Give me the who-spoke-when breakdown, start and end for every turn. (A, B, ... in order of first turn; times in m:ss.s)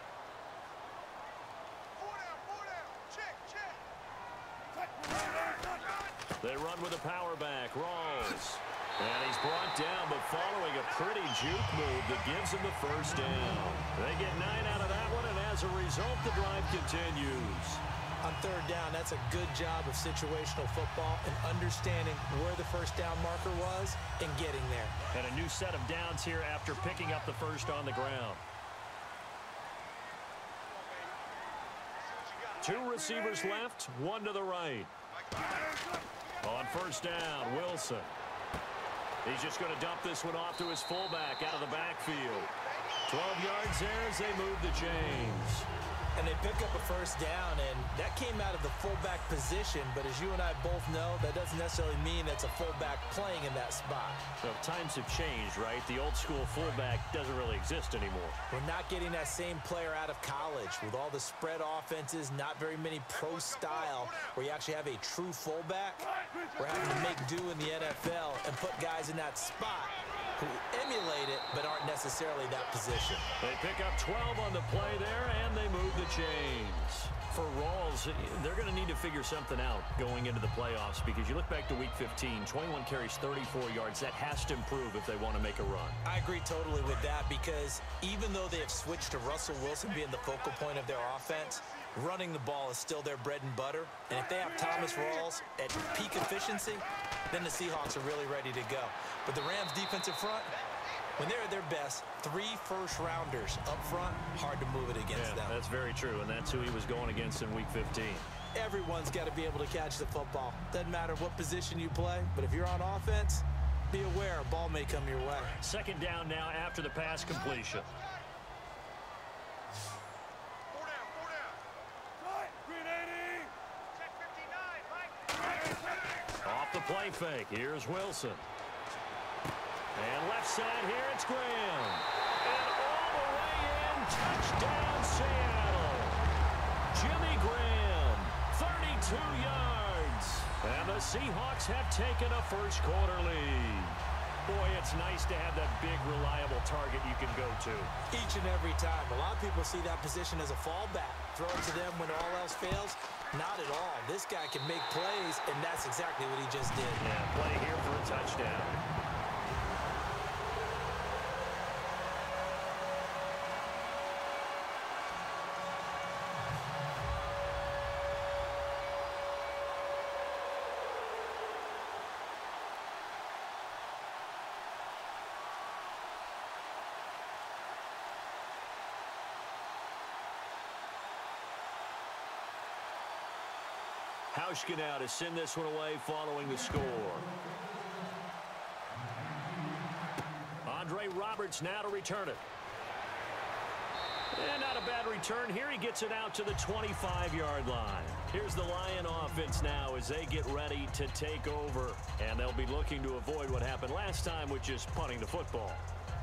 0:06.4-0:17.8 A
0:18.2-0:25.0 B
0:25.1-0:28.4 A
0:32.6-0:34.9 A
0:36.4-0:38.1 A
0:39.2-0:42.5 A
0:43.1-0:45.7 A
0:46.2-0:54.2 B
0:54.4-0:58.4 A
0:58.5-1:06.0 B
1:06.6-1:13.2 B
1:13.4-1:26.0 A
1:26.0-1:40.5 B
1:41.2-1:45.6 B
1:45.1-1:48.3 A
1:48.5-1:55.5 B
1:55.6-1:57.9 A
2:06.4-2:08.4 A
2:09.9-2:16.2 A
2:16.9-2:27.9 A
2:28.1-2:37.0 B
2:37.0-2:38.8 A
3:04.3-3:07.3 A
3:10.6-3:12.4 A
3:14.3-3:25.8 A